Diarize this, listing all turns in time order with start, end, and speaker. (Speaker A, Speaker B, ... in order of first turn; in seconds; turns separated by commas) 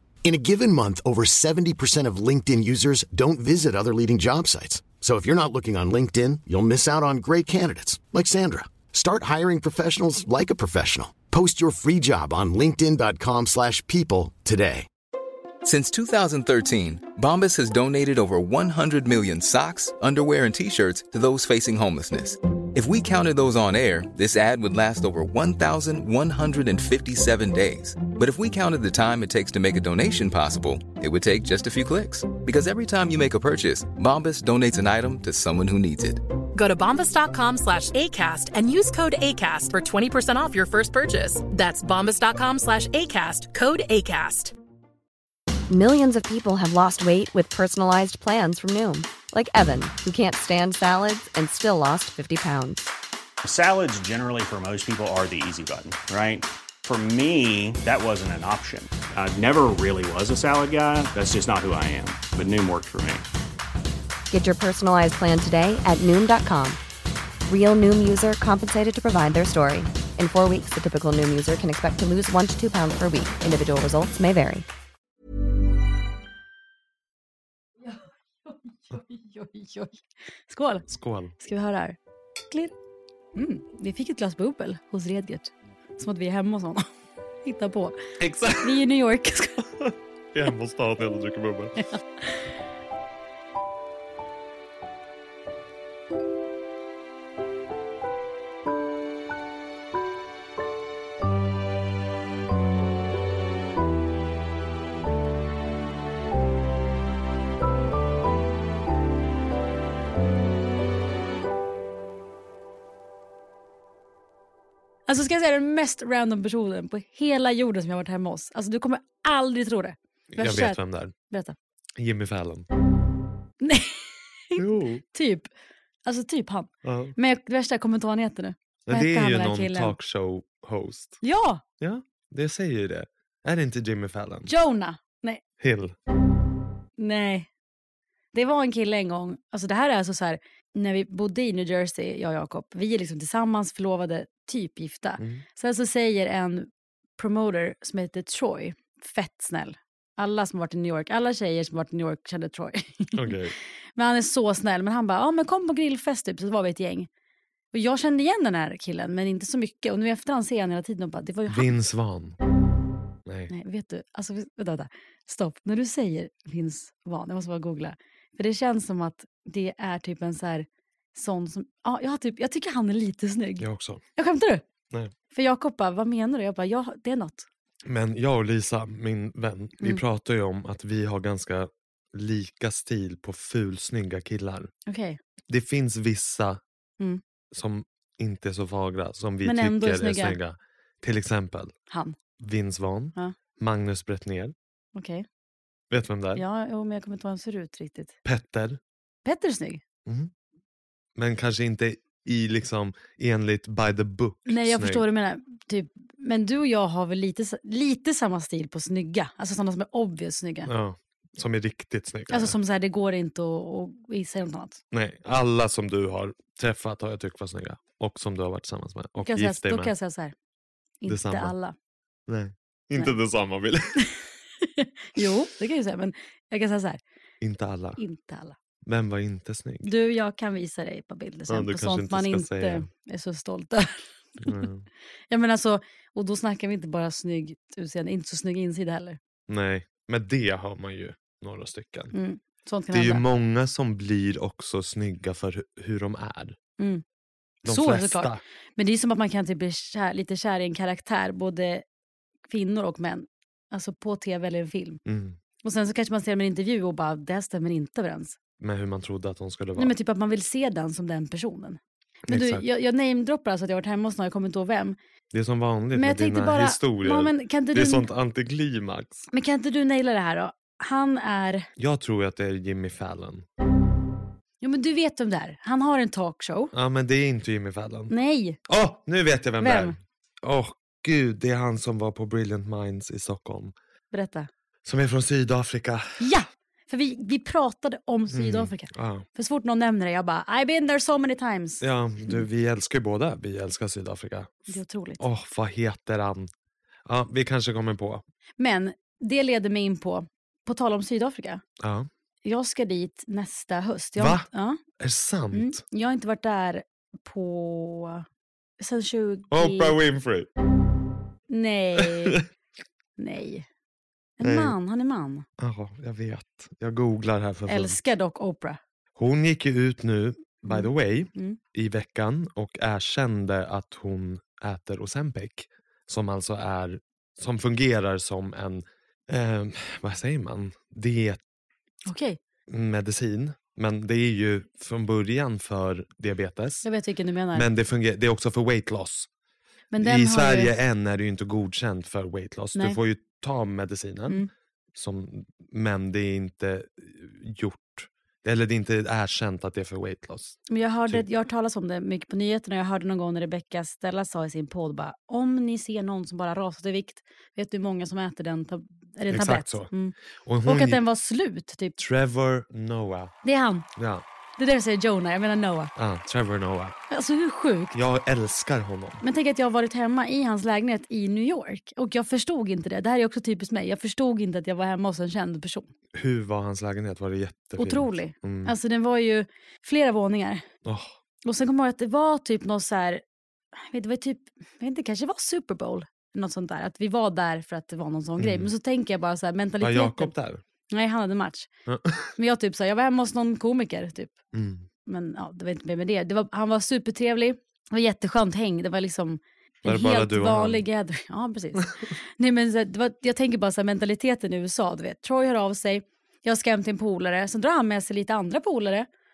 Speaker A: 0.2-14.9, Speaker B: 15.6-36.2, Speaker C: 36.5-44.5, Speaker D: 45.7-52.9, Speaker E: 53.4-63.2, Speaker D: 64.3-66.8, Speaker D: 67.5-74.7, Speaker F: 77.8-80.8, Speaker G: 80.9-81.3, Speaker F: 81.4-82.0, Speaker F: 83.3-86.8, Speaker F: 87.4-88.0, Speaker G: 88.2-88.8, Speaker F: 88.6-89.6, Speaker G: 89.8-91.8, Speaker F: 91.9-92.2, Speaker F: 115.1-121.5, Speaker G: 120.3-121.1, Speaker G: 122.0-122.7, Speaker F: 123.6-125.5, Speaker G: 124.5-125.0, Speaker F: 126.0-129.9, Speaker G: 126.8-127.2, Speaker G: 128.9-131.2, Speaker F: 131.2-131.6, Speaker G: 131.8-134.5, Speaker F: 134.4-135.4, Speaker G: 135.6-135.9, Speaker F: 137.0-137.5, Speaker F: 138.3-153.3, Speaker G: 145.2-145.4, Speaker G: 153.1-153.5, Speaker F: 153.9-157.1, Speaker F: 157.7-161.7, Speaker G: 161.5-162.4, Speaker G: 163.2-163.5, Speaker F: 163.5-174.6, Speaker G: 173.6-174.0, Speaker F: 175.3-177.5, Speaker G: 177.8-184.7, Speaker F: 184.9-185.2, Speaker G: 185.5-186.6, Speaker G: 187.5-191.7, Speaker F: 189.4-190.4, Speaker F: 191.9-192.2, Speaker G: 192.4-194.5, Speaker F: 194.9-195.2, Speaker G: 195.9-196.4, Speaker F: 196.3-198.1, Speaker G: 198.2-198.8, Speaker F: 199.2-199.8, Speaker G: 200.1-200.3, Speaker G: 201.2-205.0, Speaker F: 204.5-210.7, Speaker G: 210.7-212.6, Speaker F: 212.3-214.8, Speaker G: 214.9-219.9, Speaker F: 219.2-220.3, Speaker F: 221.0-221.7, Speaker G: 221.1-221.5, Speaker G: 222.3-224.1, Speaker F: 224.6-227.0, Speaker G: 227.4-228.0, Speaker F: 228.0-228.6, Speaker G: 228.8-229.9, Speaker F: 229.8-234.7, Speaker G: 231.5-232.9, Speaker G: 234.4-234.9, Speaker F: 235.3-239.2, Speaker G: 239.5-242.1, Speaker F: 242.1-243.2, Speaker G: 242.9-246.6, Speaker G: 247.6-248.4, Speaker F: 247.7-251.8, Speaker F: 252.5-255.0, Speaker G: 255.1-255.4, Speaker F: 255.6-258.4, Speaker G: 258.6-259.9, Speaker F: 259.8-265.0, Speaker G: 262.3-262.6, Speaker G: 265.3-269.3, Speaker F: 265.9-268.1, Speaker F: 269.3-271.7, Speaker G: 271.8-273.5, Speaker F: 274.6-276.7, Speaker G: 276.7-278.1, Speaker F: 278.1-278.6, Speaker G: 278.6-283.7, Speaker F: 279.6-279.9, Speaker F: 284.1-284.5, Speaker G: 284.8-286.2, Speaker F: 286.2-292.4, Speaker G: 288.3-289.3, Speaker G: 291.8-296.5, Speaker F: 294.7-295.2, Speaker G: 297.1-298.2, Speaker F: 298.6-301.6, Speaker G: 301.8-302.1, Speaker F: 302.4-304.8, Speaker G: 304.2-304.5, Speaker G: 305.0-305.8, Speaker F: 305.5-308.2, Speaker F: 308.8-310.0, Speaker G: 309.5-310.5, Speaker F: 311.5-312.4, Speaker G: 312.0-312.4, Speaker F: 313.2-313.6, Speaker F: 314.4-315.4, Speaker G: 314.4-314.8, Speaker G: 315.6-318.0, Speaker F: 317.6-318.8, Speaker G: 319.1-331.4, Speaker F: 320.6-321.6, Speaker F: 332.1-332.4, Speaker G: 332.7-336.9, Speaker F: 336.8-337.7, Speaker G: 337.5-339.3, Speaker F: 339.9-340.7, Speaker G: 340.0-344.4, Speaker G: 344.9-350.6, Speaker F: 350.7-361.9, Speaker G: 359.3-359.9, Speaker G: 360.4-361.0, Speaker G: 361.9-363.3, Speaker F: 363.4-363.9, Speaker G: 363.9-364.2, Speaker F: 364.6-365.9, Speaker G: 365.9-367.0, Speaker F: 367.1-367.9, Speaker G: 367.9-369.2, Speaker F: 369.2-375.9, Speaker G: 376.1-378.7, Speaker F: 377.8-380.6, Speaker G: 380.8-381.1, Speaker F: 381.4-383.2, Speaker F: 383.8-390.3, Speaker G: 388.4-388.7, Speaker G: 389.8-390.6, Speaker F: 390.9-391.7, Speaker G: 391.9-392.3, Speaker F: 392.4-394.3, Speaker G: 394.5-394.9, Speaker F: 395.1-409.1, Speaker G: 399.8-400.8